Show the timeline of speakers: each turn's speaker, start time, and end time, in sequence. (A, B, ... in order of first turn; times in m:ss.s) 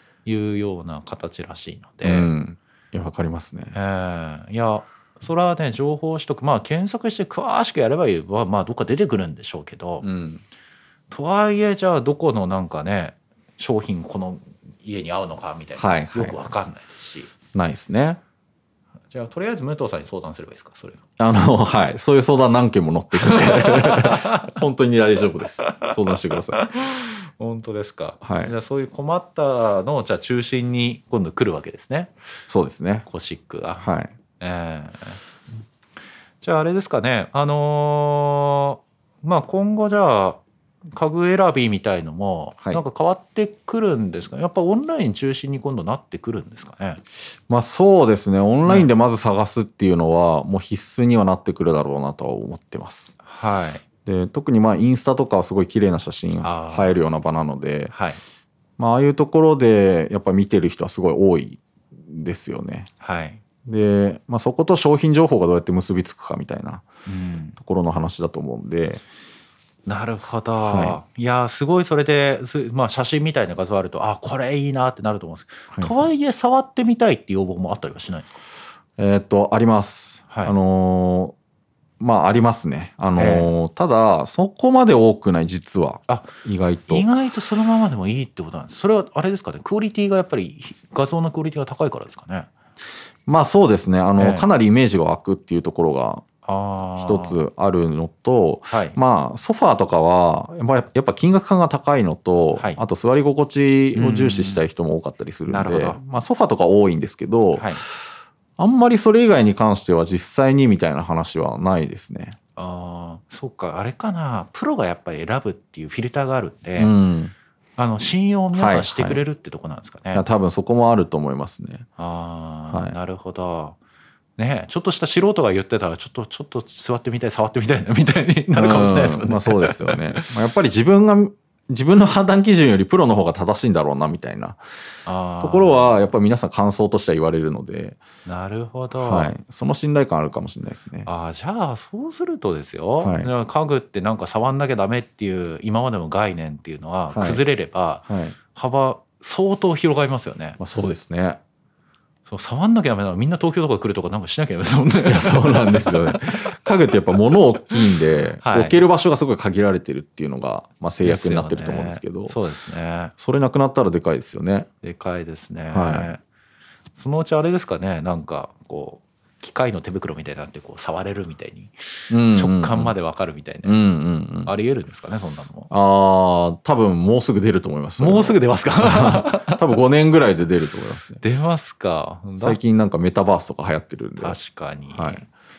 0:00.2-0:02.3 A
0:02.0-0:03.8 B
0:03.7-0:10.1 A
0:10.0-0:10.4 B
0:11.1-0:17.3 A
0:15.8-0:16.4 B
0:17.5-0:18.2 B
0:19.1-0:21.0 A
0:21.2-0:26.7 B
0:23.2-0:24.5 A
0:25.6-0:32.1 A
0:28.2-0:28.5 B
0:32.5-0:33.1 B
0:33.1-0:33.9 A
0:33.8-0:34.1 B
0:34.4-0:35.2 A
0:36.4-0:40.4 A
0:40.9-0:47.0 A
0:47.5-0:53.2 B
0:48.6-0:48.9 A
0:53.2-0:53.8 A
0:54.1-0:57.9 B
0:56.4-0:57.0 A
0:57.9-0:58.2 A
0:58.8-1:02.9 B
1:03.0-1:03.4 A
1:03.7-1:06.9 B
1:07.1-1:07.6 A
1:07.6-1:09.0 B
1:09.9-1:18.4 A
1:10.6-1:11.0 B
1:15.7-1:16.0 B
1:19.0-1:21.4 B
1:22.0-1:27.1 B
1:23.2-1:23.5 A
1:26.9-1:32.5 A
1:33.3-1:36.2 B
1:34.2-1:34.5 A
1:36.4-1:37.4 A
1:37.0-1:47.8 B
1:38.7-1:39.0 A
1:42.6-1:42.8 A
1:44.0-1:44.7 A
1:45.5-1:46.0 A
1:47.5-1:47.8 A
1:48.6-1:52.4 B
1:52.6-1:56.9 A
1:56.8-1:57.3 B
1:57.8-2:00.3 A
1:58.5-1:59.2 B
2:00.1-2:01.9 B
2:02.0-2:03.8 A
2:02.7-2:03.0 B
2:04.4-2:10.3 A
2:08.6-2:14.6 B
2:15.1-2:16.0 A
2:15.4-2:18.0 B
2:18.3-2:19.3 A
2:19.0-2:21.1 B
2:21.0-2:30.6 A
2:23.0-2:23.3 B
2:27.1-2:27.4 B
2:28.1-2:28.4 B
2:30.6-2:31.4 B
2:32.3-2:36.7 A
2:35.1-2:42.4 B
2:38.4-2:38.8 A
2:41.0-2:43.1 A
2:43.2-2:44.7 B
2:44.8-2:46.2 A
2:45.7-2:46.1 B
2:47.0-2:51.7 A
2:52.1-2:52.9 B
2:52.2-2:53.8 A
2:53.6-2:54.5 B
2:54.4-2:55.7 A
2:55.7-3:01.2 B
2:58.0-2:59.6 A
3:01.2-3:02.6 A
3:02.4-3:04.4 B
3:04.2-3:05.3 A
3:04.9-3:05.2 B